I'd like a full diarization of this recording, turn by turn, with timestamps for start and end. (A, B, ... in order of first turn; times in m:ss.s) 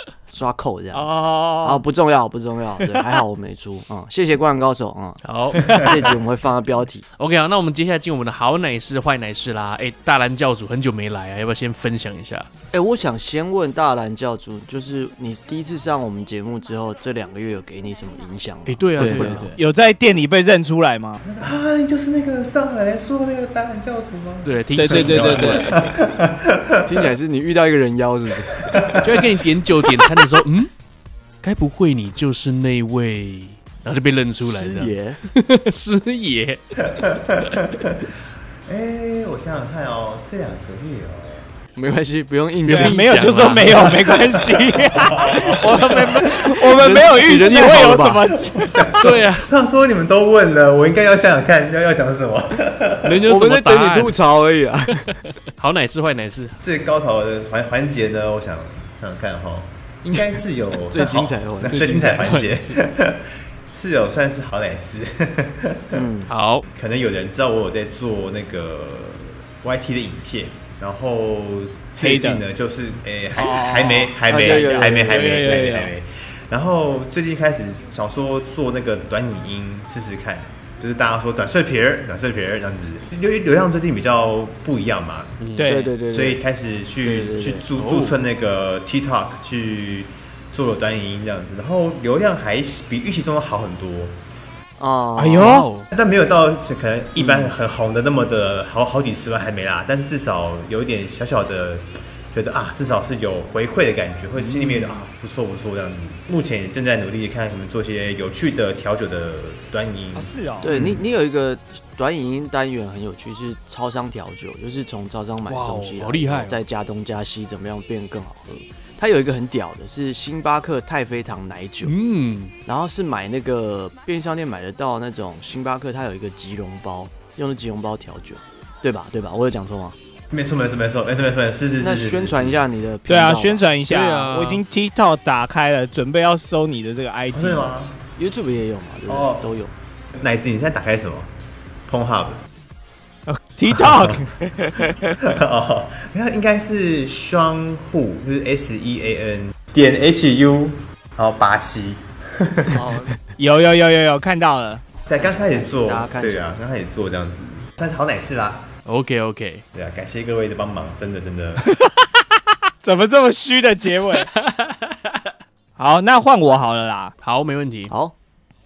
0:00.3-0:01.1 A
0:00.9-0:01.8 B
0:01.6-0:07.0 A
0:05.2-0:05.9 C
0:07.2-0:12.5 C
0:12.7-0:19.5 A
0:18.6-0:19.6 C
0:19.0-0:21.2 B
0:21.2-0:27.0 D
0:24.4-0:25.8 C
0:24.8-0:25.8 B
0:26.8-0:28.9 A
0:28.6-0:29.2 D
0:29.0-0:30.7 C
0:31.4-0:36.6 C
0:34.4-0:35.2 A
0:36.9-0:38.0 D
0:38.7-0:41.5 D
0:41.7-0:44.0 A
0:42.6-0:44.0 C
0:42.7-0:49.1 B
0:44.9-0:45.7 D
0:45.7-0:48.4 A
0:48.6-0:53.2 D
0:49.0-0:49.5 C
0:53.0-0:54.2 C
0:53.3-0:55.1 A
0:55.0-0:56.6 C
0:56.6-1:06.0 D
1:00.9-1:02.2 A
1:01.7-1:02.8 C
1:05.9-1:06.3 A
1:06.3-1:06.6 C
1:06.7-1:25.4 D
1:12.0-1:12.4 B
1:13.3-1:15.9 B
1:14.2-1:15.4 A
1:25.4-1:25.7 C
1:25.6-1:25.9 B
1:25.6-1:26.4 A
1:26.1-1:34.1 D
1:27.0-1:27.6 A
1:27.7-1:28.2 C
1:34.8-1:35.6 A
1:35.2-1:35.7 B
1:35.4-1:35.9 C
1:35.9-1:50.8 D
1:37.2-1:37.6 A
1:44.4-1:45.0 C
1:50.1-1:50.7 B
1:50.6-2:01.9 A
1:55.5-1:56.6 C
2:01.8-2:02.5 C
2:02.6-2:10.0 A
2:10.3-2:12.6 D
2:11.8-2:13.6 A
2:13.1-2:17.7 B
2:13.9-2:14.6 C
2:17.3-2:18.0 D
2:18.2-2:19.7 A
2:19.1-2:19.5 D
2:20.2-2:21.3 D
2:21.9-2:22.4 D
2:23.3-2:25.2 B
2:23.7-2:24.2 D
2:25.2-2:32.8 D
2:32.7-2:33.2 A
2:33.4-2:34.8 B
2:35.1-2:38.7 D
2:35.1-2:36.5 A
2:38.8-2:39.6 C
2:39.7-2:41.6 D
2:41.7-2:42.2 B
2:42.8-2:44.3 B
2:44.2-2:45.3 C
2:45.8-2:47.1 B
2:47.2-2:47.9 C
2:47.9-2:48.1 A